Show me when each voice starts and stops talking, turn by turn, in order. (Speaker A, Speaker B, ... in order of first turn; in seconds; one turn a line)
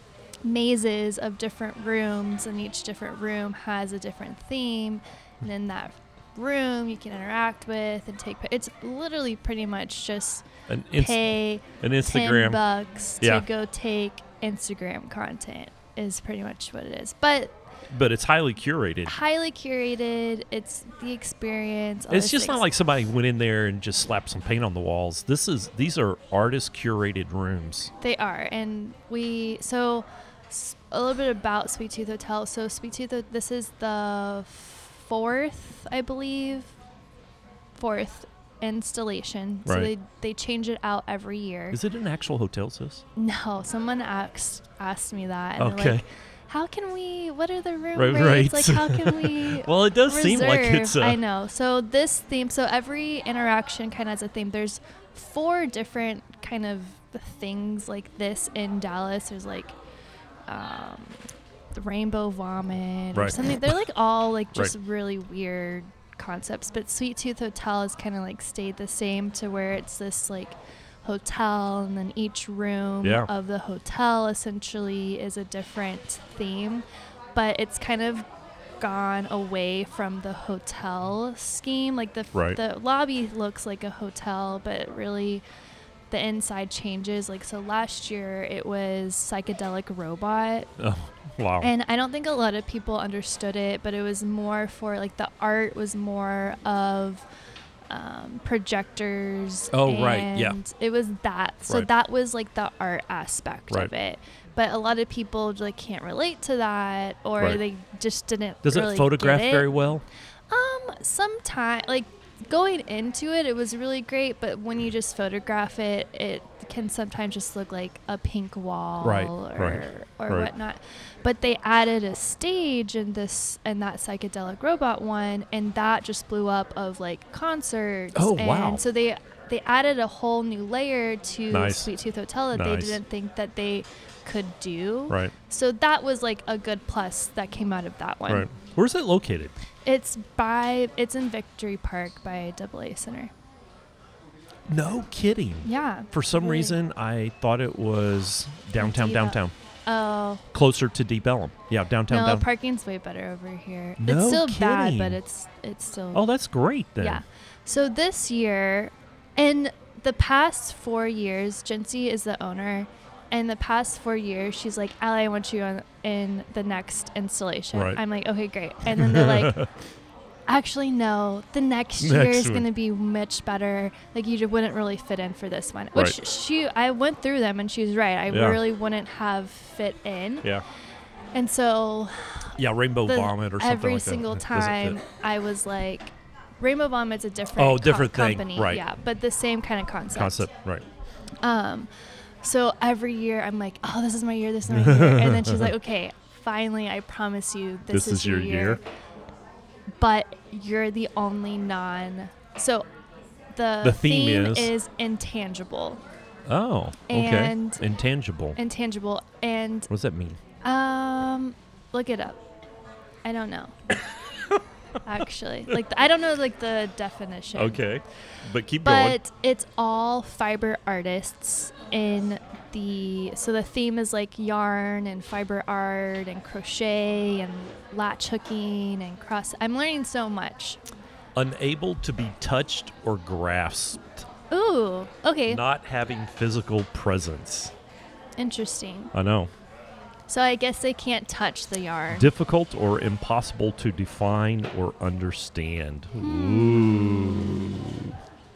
Speaker A: 0.4-17.6
Speaker B: 10.7-11.2
Speaker B: 11.8-12.6
Speaker B: 17.9-19.1
Speaker A: 19.1-22.6
Speaker B: 22.1-27.9
Speaker A: 28.0-36.7
Speaker A: 37.8-41.8
Speaker B: 39.6-39.9
Speaker B: 41.7-43.0
Speaker A: 43.1-59.7
Speaker B: 45.6-46.0
Speaker B: 48.0-51.2
Speaker A: 60.5-78.2
Speaker B: 63.1-63.7
Speaker B: 73.0-73.3
Speaker A: 78.8-85.4
Speaker B: 82.3-82.6
Speaker A: 86.1-90.7
Speaker B: 90.8-91.7
Speaker A: 91.6-97.2
Speaker A: 97.9-109.9
Speaker B: 99.7-100.6
Speaker B: 108.6-110.0
Speaker A: 110.5-138.5
Speaker B: 119.0-120.5
Speaker B: 128.1-128.8
Speaker B: 131.5-131.9
Speaker B: 132.5-133.0
Speaker B: 138.3-139.5
Speaker A: 139.8-143.3
Speaker B: 144.7-149.5
Speaker A: 145.6-146.8
Speaker A: 148.8-150.4
Speaker B: 150.5-152.5
Speaker A: 152.1-156.2
Speaker B: 154.0-155.2
Speaker B: 156.1-157.2
Speaker A: 157.0-169.7
Speaker B: 167.7-168.0
Speaker B: 168.8-169.7
Speaker A: 170.5-180.6
Speaker B: 172.0-172.7
Speaker B: 178.3-178.6
Speaker A: 181.3-190.5
Speaker B: 182.5-185.0
Speaker B: 187.6-188.8
Speaker B: 190.1-190.8
Speaker A: 191.4-191.9
Speaker A: 192.4-198.8
Speaker B: 194.7-195.7
Speaker B: 197.9-198.8
Speaker A: 200.0-202.8
Speaker A: 203.5-206.0
Speaker B: 203.8-204.7
Speaker B: 206.5-208.6
Speaker A: 207.1-207.8
Speaker A: 208.6-209.9
Speaker B: 209.9-210.4
Speaker A: 210.6-212.4
Speaker A: 213.2-213.8
Speaker A: 215.0-217.8
Speaker B: 217.5-219.2
Speaker A: 218.8-230.8
Speaker B: 231.3-234.2
Speaker A: 234.5-235.6
Speaker B: 235.5-237.7
Speaker A: 238.4-239.1
Speaker B: 239.1-239.5
Speaker A: 240.3-242.3
Speaker B: 242.1-248.2
Speaker A: 246.2-247.8